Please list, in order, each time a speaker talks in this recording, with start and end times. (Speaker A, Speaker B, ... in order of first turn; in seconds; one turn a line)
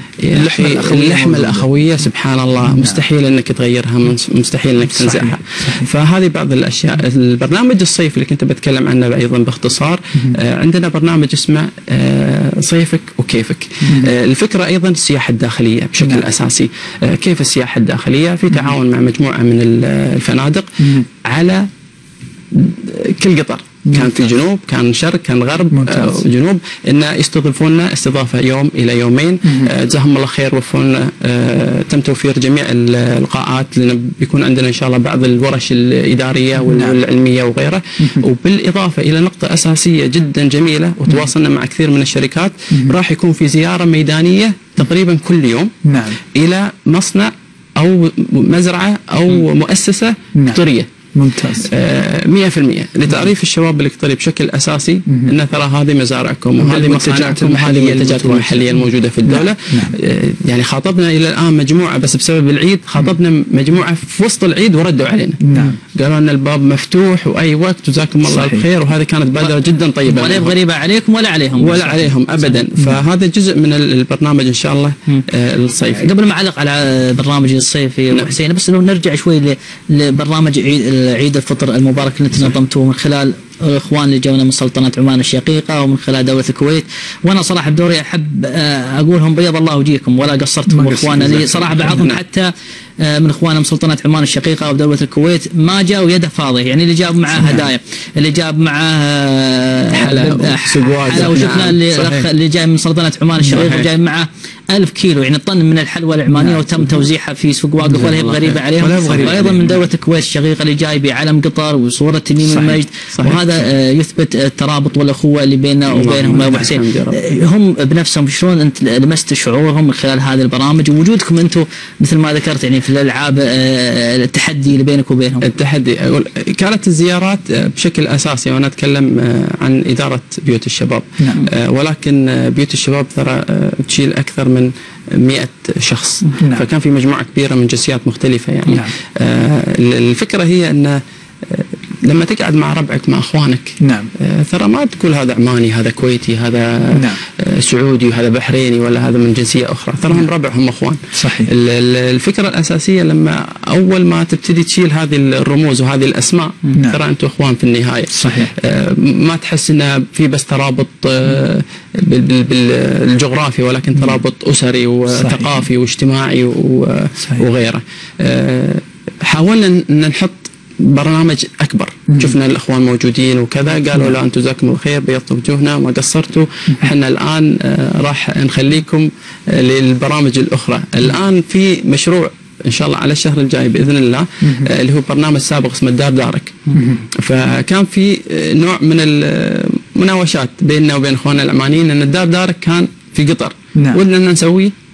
Speaker A: 0.2-20.7
Speaker B: 0.3-1.7
Speaker B: 2.6-3.0
Speaker B: 4.8-5.9
Speaker B: 13.9-14.1
Speaker B: 16.0-16.3
Speaker B: 20.8-21.1
Speaker A: 21.2-21.6
Speaker A: 22.5-45.7
Speaker B: 23.9-24.1
Speaker B: 25.7-26.2
Speaker B: 29.4-29.7
Speaker B: 36.7-37.0
Speaker B: 38.0-38.2
Speaker B: 45.9-46.2
Speaker A: 46.3-50.9
Speaker B: 50.3-50.6
Speaker B: 51.1-51.7
Speaker A: 51.6-65.4
Speaker B: 55.1-55.3
Speaker B: 56.6-59.9
Speaker B: 65.4-65.8
Speaker A: 65.9-70.5
Speaker B: 68.2-68.7
Speaker C: 70.0-72.6
Speaker A: 71.6-76.1
Speaker C: 75.9-125.5
Speaker B: 90.7-91.2
Speaker A: 91.0-92.2
Speaker B: 97.4-97.7
Speaker A: 99.9-102.3
Speaker B: 101.2-101.6
Speaker A: 103.5-103.9
Speaker B: 106.3-107.0
Speaker A: 108.0-109.5
Speaker B: 108.8-109.8
Speaker B: 112.4-112.8
Speaker A: 113.1-113.4
Speaker A: 115.9-117.2
Speaker B: 116.4-116.7
Speaker A: 125.4-186.7
Speaker B: 131.2-131.5
Speaker B: 136.4-136.7
Speaker B: 143.8-144.1
Speaker B: 146.9-147.2
Speaker B: 151.1-151.5
Speaker B: 158.1-158.5
Speaker B: 165.1-165.6
Speaker B: 172.1-172.3
Speaker B: 184.4-184.7
Speaker B: 186.7-187.0
Speaker A: 187.2-194.7
Speaker B: 193.8-194.0